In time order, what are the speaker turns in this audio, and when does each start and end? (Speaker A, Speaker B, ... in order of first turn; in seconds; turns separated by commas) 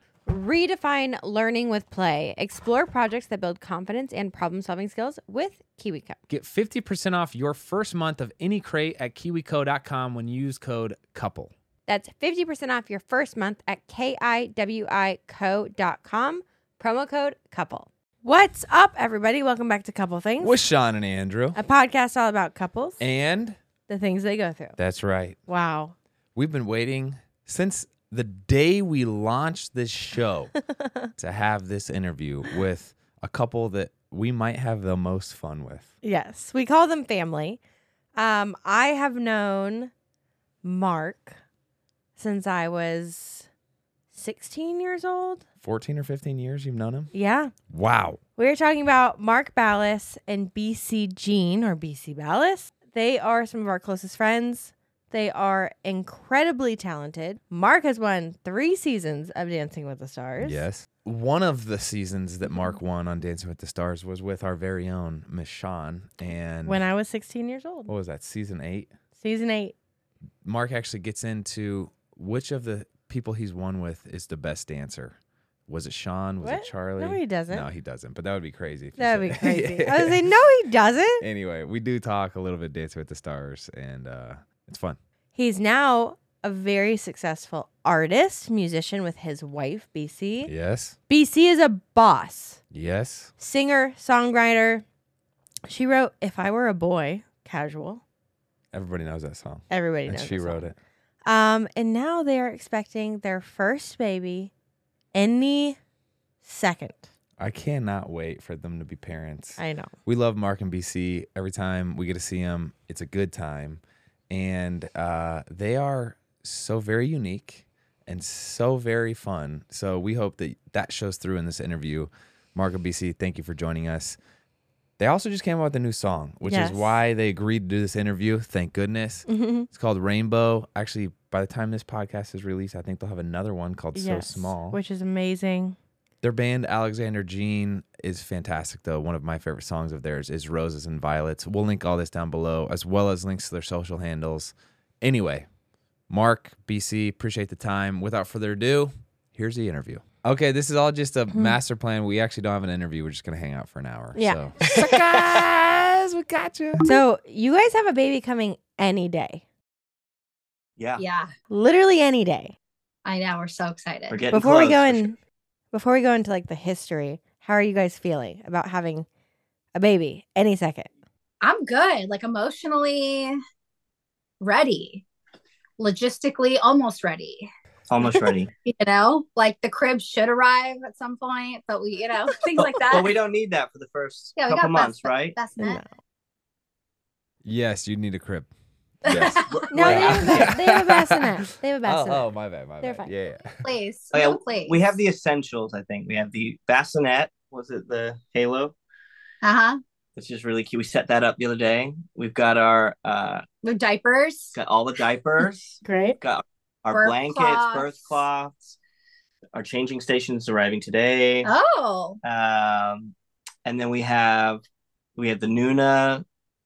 Speaker A: 0.3-6.2, Speaker B: 6.3-11.5, Speaker A: 11.9-20.6, Speaker B: 20.4-21.6, Speaker A: 21.5-23.0, Speaker B: 23.0-23.6, Speaker A: 23.9-24.8, Speaker B: 24.8-25.4, Speaker A: 25.5-25.9, Speaker B: 26.3-30.6, Speaker B: 31.1-35.9, Speaker A: 36.0-37.6, Speaker A: 38.1-39.9, Speaker A: 40.6-41.4, Speaker A: 42.2-43.5, Speaker A: 44.1-45.4, Speaker B: 45.6-47.1, Speaker A: 47.1-47.5, Speaker B: 47.7-48.2, Speaker A: 48.4-60.6, Speaker B: 60.4-66.8, Speaker A: 62.4-62.8, Speaker A: 66.6-67.9, Speaker B: 67.9-68.9, Speaker A: 69.2-69.7, Speaker B: 70.4-80.2, Speaker A: 76.4-77.7, Speaker A: 79.0-81.2, Speaker B: 81.2-85.0, Speaker A: 85.3-90.5, Speaker B: 90.4-91.0, Speaker A: 91.1-92.6, Speaker B: 92.7-93.3, Speaker A: 93.4-94.8, Speaker A: 95.7-98.0, Speaker B: 98.7-100.8, Speaker A: 99.7-100.6, Speaker A: 101.2-104.5, Speaker A: 105.1-105.8, Speaker A: 106.4-107.0, Speaker B: 107.4-124.2, Speaker A: 109.6-109.9, Speaker B: 125.0-134.8, Speaker A: 126.4-127.0, Speaker A: 129.3-129.7, Speaker A: 133.9-135.8, Speaker B: 136.2-145.5, Speaker B: 146.1-156.9, Speaker A: 154.1-154.9, Speaker A: 156.8-159.4, Speaker C: 160.8-161.0, Speaker D: 161.0-161.3, Speaker A: 161.5-162.5, Speaker D: 163.0-164.2, Speaker C: 164.1-165.1, Speaker A: 164.3-165.2, Speaker A: 165.7-169.1, Speaker A: 169.7-170.9, Speaker D: 171.4-173.4, Speaker D: 174.4-175.0, Speaker D: 175.8-177.5, Speaker C: 177.9-178.5, Speaker D: 178.7-183.1, Speaker C: 182.6-185.3, Speaker D: 184.3-185.8, Speaker A: 185.6-185.8, Speaker B: 187.4-188.5, Speaker B: 189.0-191.2, Speaker D: 189.0-189.6, Speaker C: 189.5-190.5, Speaker A: 189.7-192.3, Speaker B: 191.8-193.6, Speaker A: 192.8-193.1, Speaker D: 193.6-194.8, Speaker C: 194.1-198.7, Speaker D: 199.4-199.8, Speaker C: 200.2-203.4, Speaker D: 203.6-204.5, Speaker C: 204.5-208.8, Speaker A: 205.8-206.2, Speaker D: 206.9-208.1, Speaker C: 209.5-211.5, Speaker D: 211.4-212.2, Speaker C: 212.2-213.1, Speaker C: 213.6-214.6, Speaker C: 215.2-216.2